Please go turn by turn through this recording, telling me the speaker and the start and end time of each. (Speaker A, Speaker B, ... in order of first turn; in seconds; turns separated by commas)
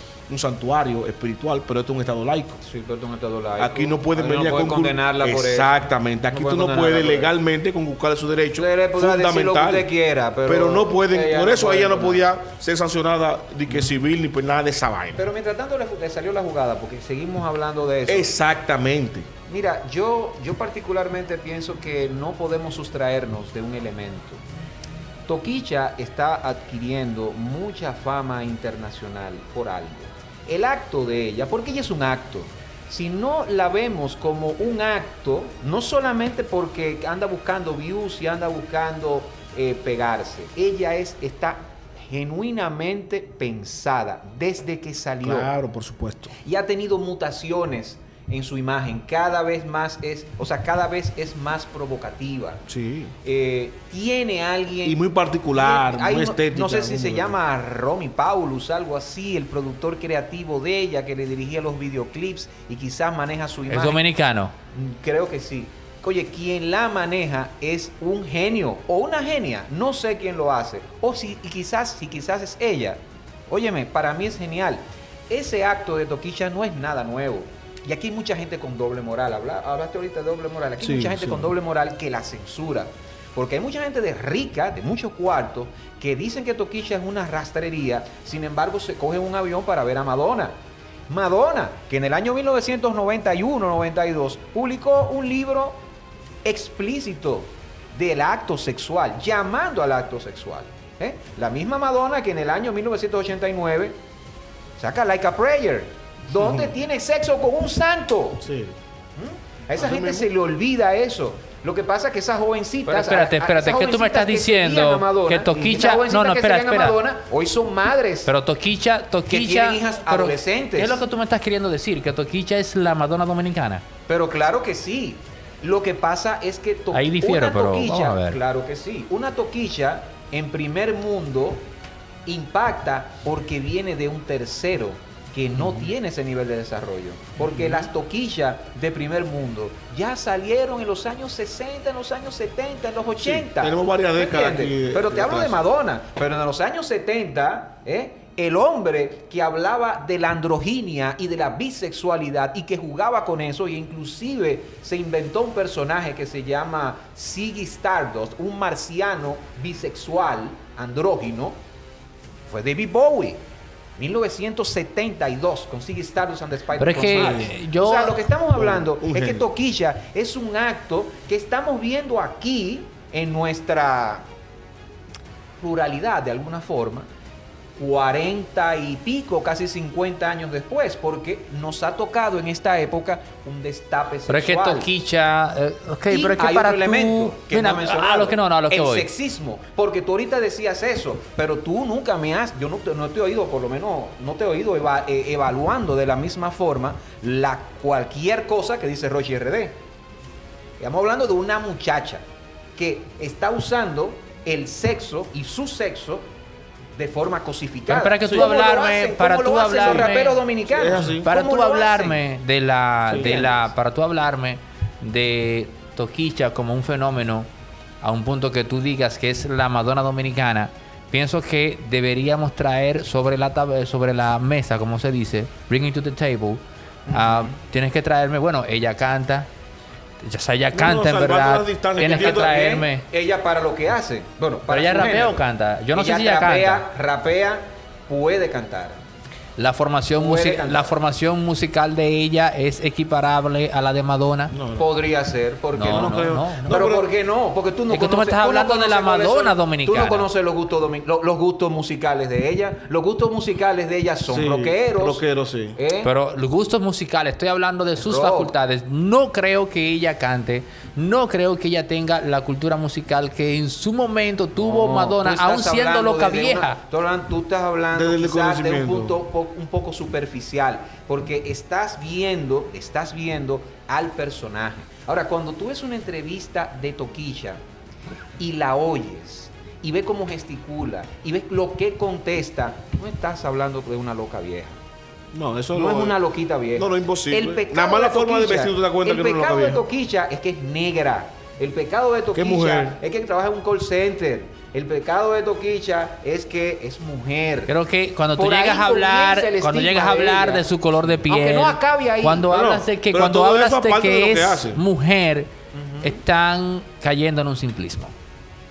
Speaker A: 0.3-2.6, Speaker B: 2.6-5.7, Speaker A: 3.6-9.9, Speaker B: 6.3-7.3, Speaker B: 8.6-12.3, Speaker A: 10.4-15.2, Speaker B: 13.7-13.9, Speaker B: 15.2-18.3, Speaker A: 18.1-19.3, Speaker B: 19.5-24.4, Speaker B: 25.3-45.5, Speaker A: 45.2-46.3, Speaker B: 46.4-52.6, Speaker A: 52.7-53.1, Speaker B: 53.2-55.0, Speaker A: 54.8-57.4, Speaker B: 55.5-64.0, Speaker C: 63.7-64.5, Speaker B: 64.7-90.5, Speaker A: 80.8-81.5, Speaker B: 91.1-95.8, Speaker B: 96.4-104.0, Speaker B: 104.8-108.4, Speaker A: 106.4-106.7, Speaker A: 108.4-108.8, Speaker B: 109.2-118.3, Speaker A: 109.8-110.3, Speaker C: 112.9-117.0, Speaker C: 118.2-123.8, Speaker B: 119.3-121.0, Speaker B: 124.1-131.7, Speaker C: 126.9-128.4, Speaker B: 132.2-161.6, Speaker A: 135.6-135.8, Speaker A: 137.4-137.9, Speaker A: 143.2-145.6, Speaker B: 162.5-163.4, Speaker B: 164.0-174.2, Speaker C: 166.8-168.2, Speaker A: 167.1-167.5, Speaker A: 168.5-169.4, Speaker B: 175.6-177.1, Speaker B: 177.8-184.9, Speaker C: 184.3-189.1, Speaker B: 186.1-199.8, Speaker B: 200.8-202.2, Speaker B: 202.8-206.2, Speaker B: 206.9-212.2, Speaker C: 207.9-210.4, Speaker A: 209.8-210.1, Speaker A: 210.7-211.3, Speaker C: 210.9-217.5, Speaker A: 213.1-213.5, Speaker B: 213.1-213.7, Speaker C: 218.0-229.5, Speaker B: 227.1-227.5, Speaker C: 230.2-233.0, Speaker A: 230.7-232.5, Speaker B: 232.0-239.0, Speaker C: 234.7-236.8, Speaker C: 239.6-244.5, Speaker B: 240.1-240.9, Speaker A: 244.5-244.9, Speaker B: 244.8-255.2, Speaker C: 245.7-246.9, Speaker A: 245.8-247.1, Speaker C: 247.9-250.3, Speaker A: 254.3-255.8, Speaker B: 255.8-256.1, Speaker C: 256.0-266.8, Speaker B: 258.0-258.5, Speaker B: 264.6-277.6, Speaker A: 267.9-269.2, Speaker B: 278.4-284.8, Speaker A: 285.3-286.2, Speaker B: 285.7-297.7, Speaker A: 286.8-289.8, Speaker A: 292.3-292.9, Speaker C: 297.7-305.5, Speaker B: 298.3-302.5, Speaker A: 302.5-304.8, Speaker B: 305.7-306.2, Speaker C: 306.0-308.1